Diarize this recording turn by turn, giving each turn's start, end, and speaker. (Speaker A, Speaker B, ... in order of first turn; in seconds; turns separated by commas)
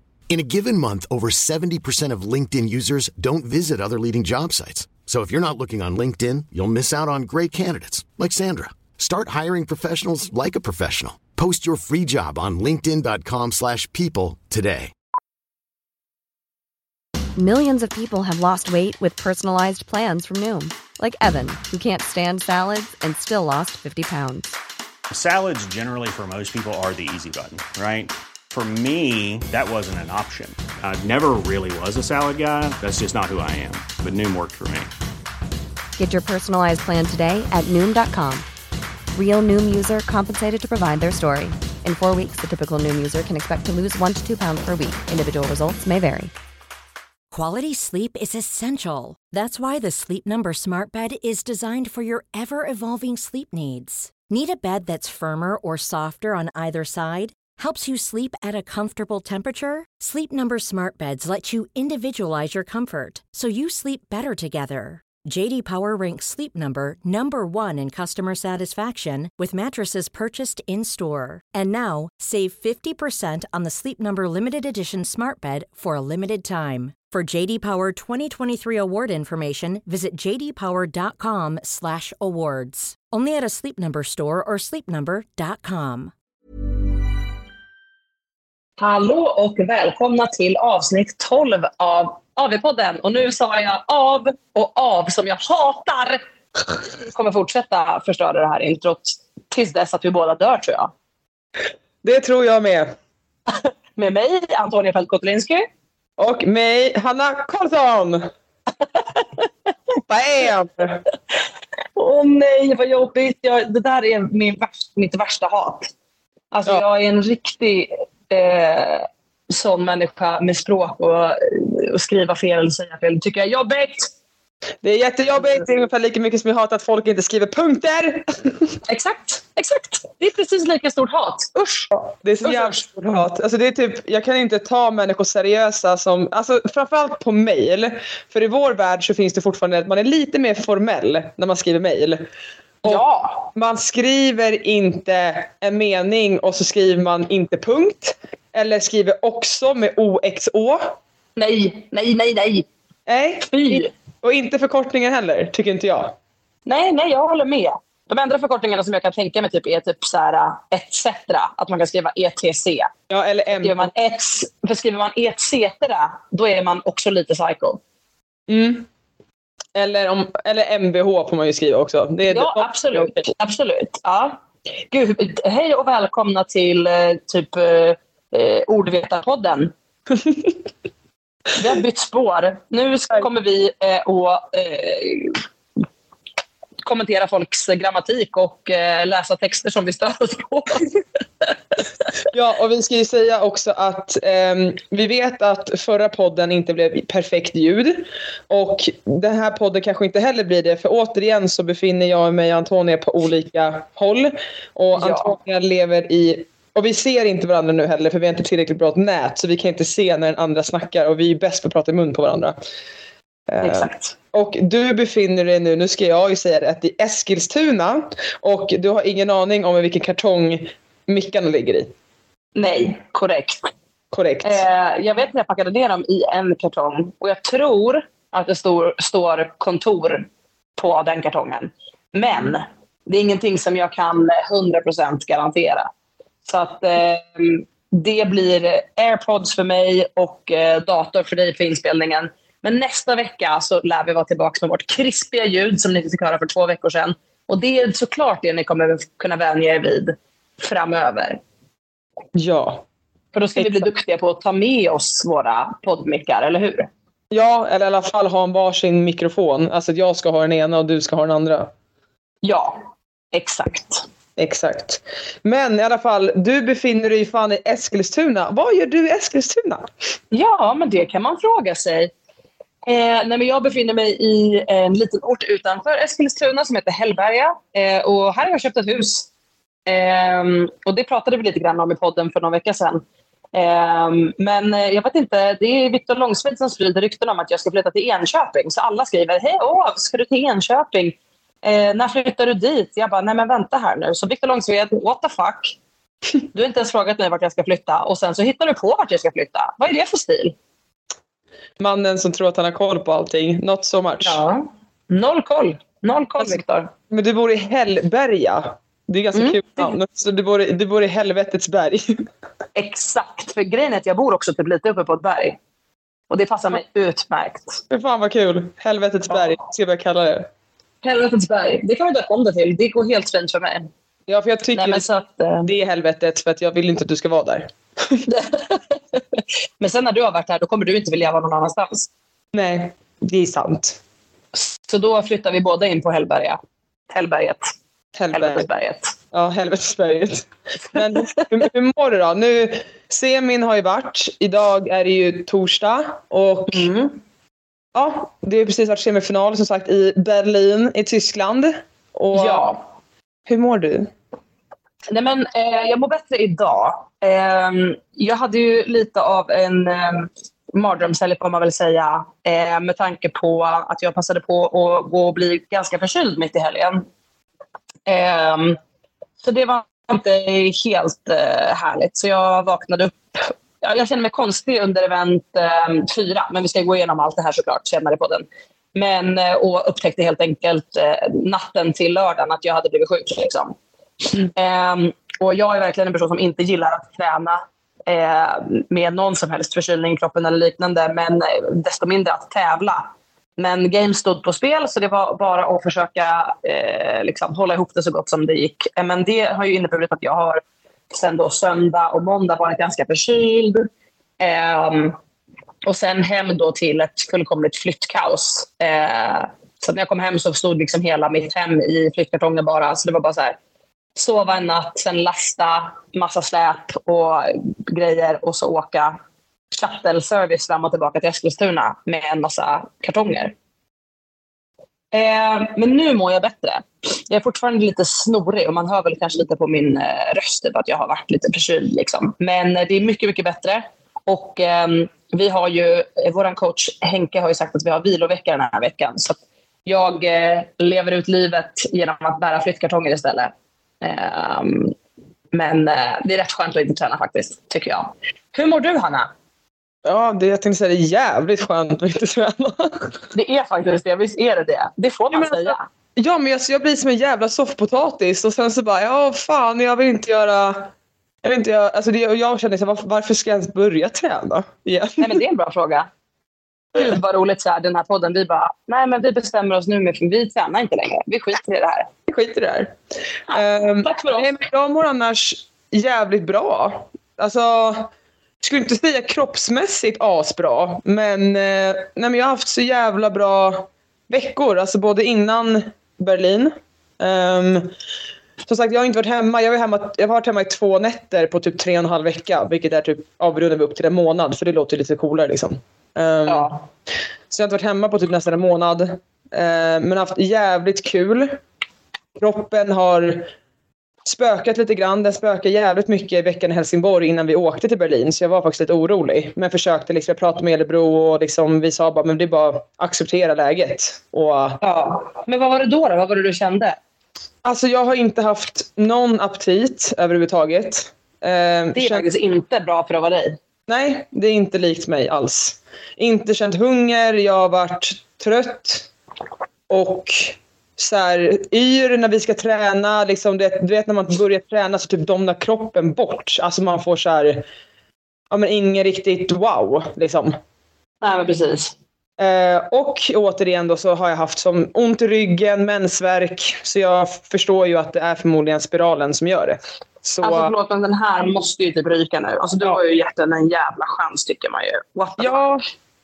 Speaker A: 0.3-14.9, Speaker B: 17.4-24.6, Speaker C: 25.1-34.9, Speaker B: 36.0-38.5, Speaker B: 39.1-46.3, Speaker D: 47.3-86.1, Speaker E: 88.8-96.2, Speaker E: 96.9-100.9, Speaker F: 102.0-103.0, Speaker E: 104.0-105.7, Speaker F: 106.2-108.3, Speaker F: 110.1-111.0, Speaker E: 112.0-115.9, Speaker E: 116.5-124.1, Speaker F: 124.8-128.8, Speaker E: 125.4-125.6, Speaker E: 128.9-131.9, Speaker F: 131.9-142.3, Speaker E: 132.4-132.8, Speaker E: 142.8-143.4, Speaker F: 143.5-151.0, Speaker E: 151.4-152.7, Speaker F: 153.1-156.2, Speaker E: 153.4-153.9, Speaker E: 156.7-162.9, Speaker F: 163.1-163.9, Speaker E: 163.5-167.8, Speaker F: 168.5-168.9, Speaker F: 169.8-173.2, Speaker E: 172.3-174.4, Speaker E: 174.9-179.7, Speaker F: 180.2-180.5, Speaker E: 181.6-185.4, Speaker E: 186.8-190.9, Speaker F: 192.3-212.6, Speaker E: 204.9-205.3, Speaker F: 213.5-221.9, Speaker E: 213.6-214.1, Speaker E: 222.6-223.7, Speaker F: 224.1-224.6, Speaker E: 224.4-235.9, Speaker E: 236.4-251.4, Speaker F: 252.3-252.8, Speaker E: 253.3-256.9, Speaker F: 253.6-253.9, Speaker F: 257.3-261.7, Speaker E: 262.4-264.1, Speaker F: 264.4-269.9, Speaker E: 270.3-272.1, Speaker E: 272.8-279.3, Speaker E: 279.9-283.0, Speaker E: 283.5-295.8, Speaker E: 296.5-300.6, Speaker F: 301.8-304.4, Speaker E: 304.2-306.9, Speaker F: 306.4-312.3, Speaker E: 309.3-309.9, Speaker E: 312.8-315.6, Speaker E: 316.3-317.8, Speaker F: 317.9-320.5, Speaker E: 321.0-323.9, Speaker F: 324.3-325.1, Speaker E: 324.8-325.7, Speaker F: 325.6-328.3, Speaker E: 328.3-332.1, Speaker F: 332.5-334.0, Speaker E: 334.5-336.6, Speaker E: 337.1-337.7, Speaker F: 338.1-338.7, Speaker E: 338.3-339.1, Speaker F: 339.3-346.9, Speaker E: 341.2-341.5, Speaker E: 346.7-347.2, Speaker F: 347.9-352.7, Speaker E: 352.3-352.8, Speaker F: 353.5-354.1, Speaker E: 355.1-367.1, Speaker E: 368.1-368.8, Speaker E: 369.4-383.8, Speaker E: 384.4-400.6, Speaker E: 401.1-403.9, Speaker E: 404.4-405.2, Speaker E: 405.9-413.6, Speaker E: 414.2-419.2, Speaker E: 419.7-423.5, Speaker E: 425.1-444.9, Speaker E: 445.5-449.3, Speaker F: 450.1-453.1, Speaker E: 453.3-455.9, Speaker F: 455.3-460.9, Speaker F: 461.4-465.4, Speaker E: 465.2-466.1, Speaker E: 466.9-472.1, Speaker F: 472.3-473.0, Speaker E: 473.5-474.5, Speaker F: 473.5-478.1, Speaker F: 478.6-487.9, Speaker F: 488.7-496.7, Speaker E: 496.5-496.8, Speaker F: 497.5-501.6, Speaker F: 502.4-503.5, Speaker F: 504.2-514.8, Speaker E: 514.8-517.0, Speaker F: 517.6-522.2, Speaker E: 521.9-523.6, Speaker F: 523.9-529.1, Speaker F: 529.9-537.6, Speaker F: 538.5-540.6, Speaker E: 541.2-542.0, Speaker F: 542.4-550.7, Speaker E: 550.4-555.6, Speaker F: 555.4-555.8